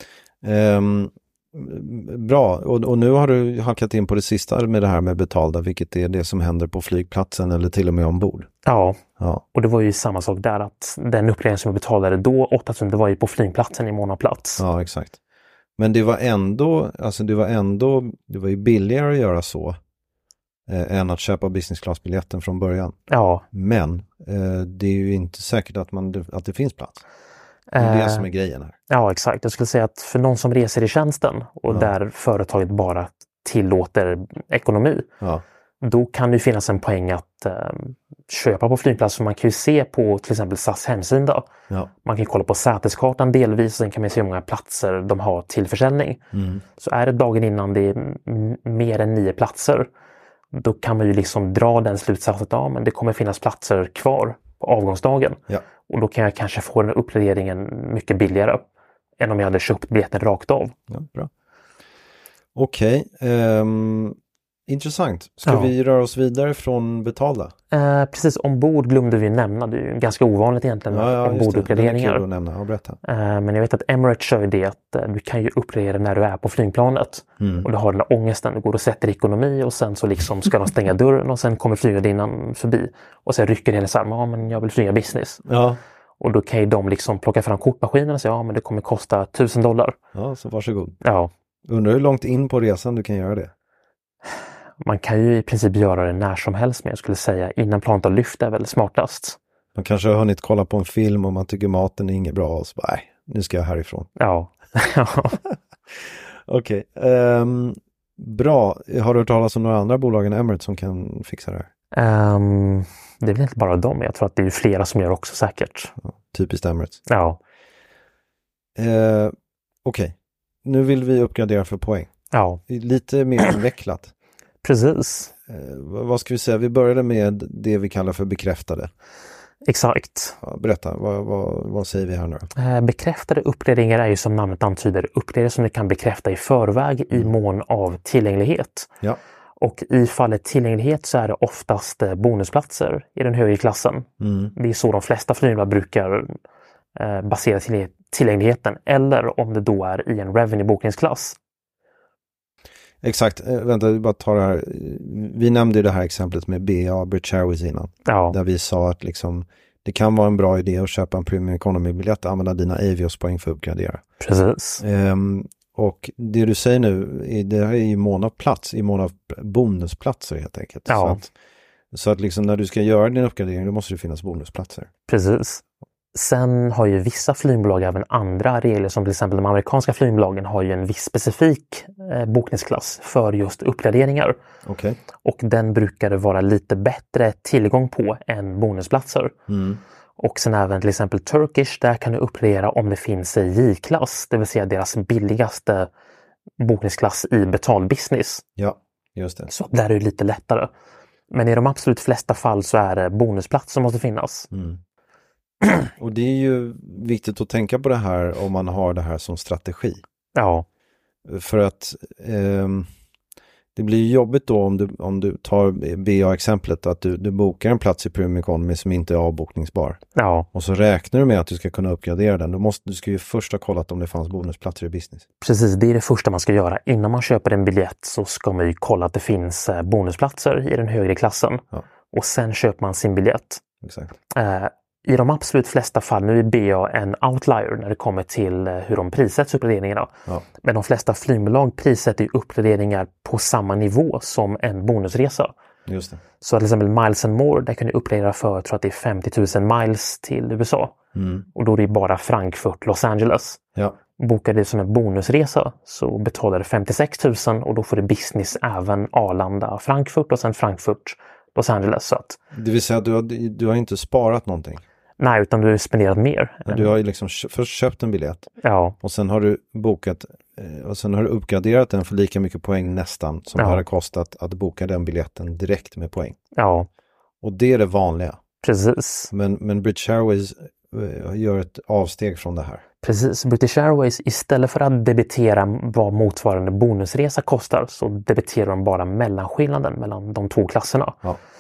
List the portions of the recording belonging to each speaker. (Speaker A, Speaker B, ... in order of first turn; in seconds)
Speaker A: 0.4-8.5, 9.2-9.4, 14.6-15.2, 15.8-19.8, 20.7-22.9, 23.5-27.0, 27.8-28.7, 46.3-46.6, 60.9-61.3, 62.5-67.5, 70.9-73.0, 77.4-77.7, 85.5-85.8, 90.1-91.0, 91.7-93.5, 99.7-104.1, 105.4-111.7, 116.0-117.0, 118.8-122.1, 122.7-124.1, 125.5-128.9, 130.4-132.5, 144.2-144.5, 153.0-164.0, 164.8-171.3, 171.9-174.9, 184.6-185.0, 189.5-189.8, 198.6-199.5, 204.5-204.8, 206.0-210.0, 211.2-212.9, 213.7-220.0, 220.5-225.2, 233.8-234.1, 245.8-246.2, 251.1-251.4, 262.5-264.8, 266.6-268.5, 269.0-276.4, 277.4-278.4, 279.3-282.8
Speaker B: 8.6-9.0, 9.5-14.6, 23.1-23.4, 27.7-28.3, 28.9-35.1, 35.8-41.5, 42.0-46.2, 46.8-49.9, 50.5-58.6, 59.2-60.7, 65.4-65.7, 67.7-72.2, 73.0-85.4, 86.2-90.0, 91.0-91.3, 94.8-99.4, 104.2-105.4, 111.9-115.9, 117.1-117.4, 122.3-122.6, 124.6-125.3, 129.6-130.4, 132.6-138.9, 139.6-146.4, 146.9-151.3, 158.1-158.3, 164.2-164.8, 170.9-171.2, 175.1-175.6, 176.1-184.4, 185.2-189.3, 190.2-195.9, 196.6-198.4, 199.5-200.7, 201.3-204.5, 210.3-210.7, 220.2-220.5, 225.4-233.6, 234.3-245.5, 246.4-250.9, 251.5-253.6, 254.2-262.4, 265.2-266.9, 268.6-268.9, 273.6-273.8, 276.5-276.9, 278.6-279.3, 283.0-291.2